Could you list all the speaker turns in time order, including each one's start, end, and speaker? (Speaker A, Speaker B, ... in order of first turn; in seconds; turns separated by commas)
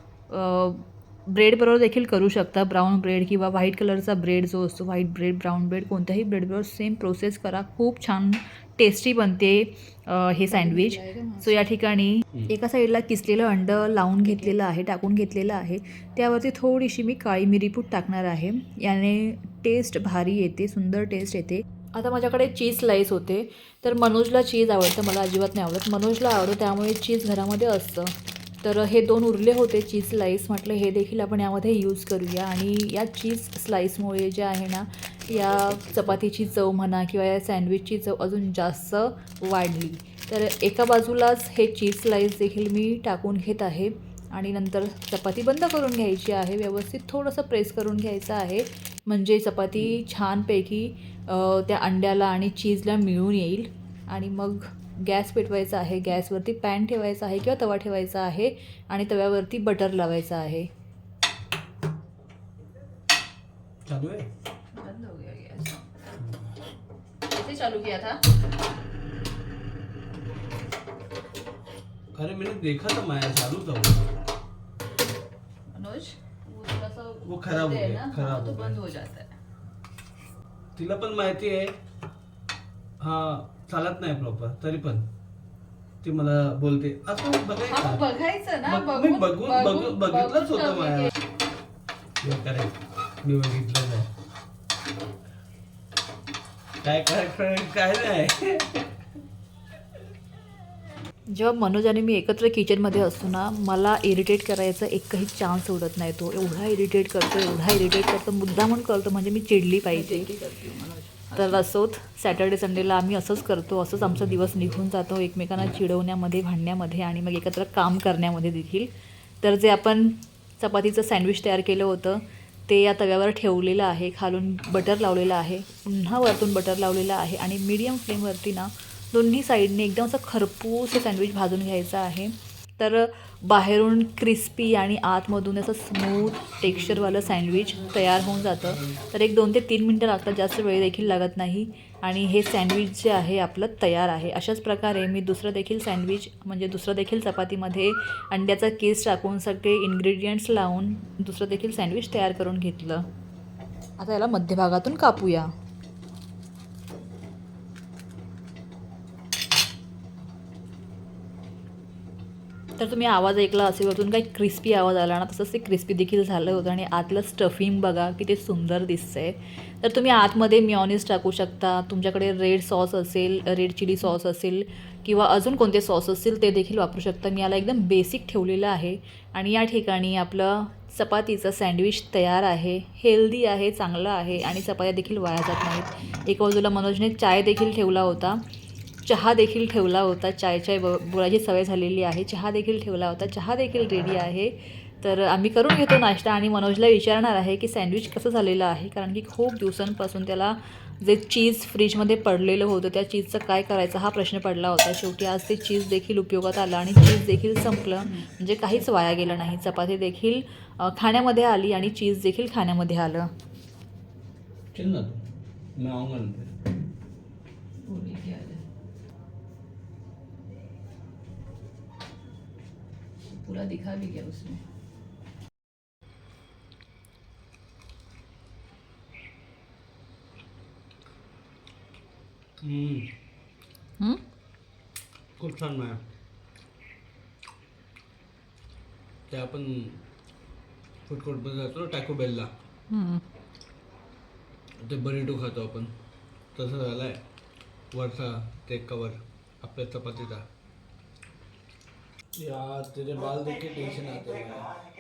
Speaker A: 0.3-60.7, Speaker B: 10.5-11.6, Speaker B: 14.2-14.5, Speaker C: 35.4-36.0, Speaker C: 63.9-64.3, Speaker A: 64.8-65.1, Speaker B: 64.8-65.8, Speaker C: 66.2-66.5, Speaker A: 67.3-68.2, Speaker C: 72.2-74.1, Speaker A: 75.8-77.8, Speaker B: 76.1-77.0, Speaker C: 77.2-78.8, Speaker B: 77.7-79.3, Speaker C: 80.8-81.8, Speaker C: 83.0-85.1, Speaker C: 86.0-88.1, Speaker A: 87.7-91.0, Speaker C: 88.6-91.1, Speaker C: 92.2-94.1, Speaker C: 96.8-98.8, Speaker A: 101.3-110.3, Speaker B: 109.9-111.5, Speaker A: 111.3-118.9, Speaker A: 119.4-153.1, Speaker A: 154.0-155.5, Speaker A: 162.8-188.4, Speaker A: 189.1-213.3, Speaker C: 214.7-215.2, Speaker C: 215.8-216.5, Speaker B: 217.9-218.6, Speaker B: 223.4-224.6, Speaker C: 232.6-233.1, Speaker C: 235.4-236.0, Speaker C: 239.3-240.0, Speaker C: 241.1-242.5, Speaker A: 242.9-243.2, Speaker C: 244.8-245.9, Speaker C: 246.6-247.2, Speaker C: 247.9-250.4, Speaker C: 252.4-254.7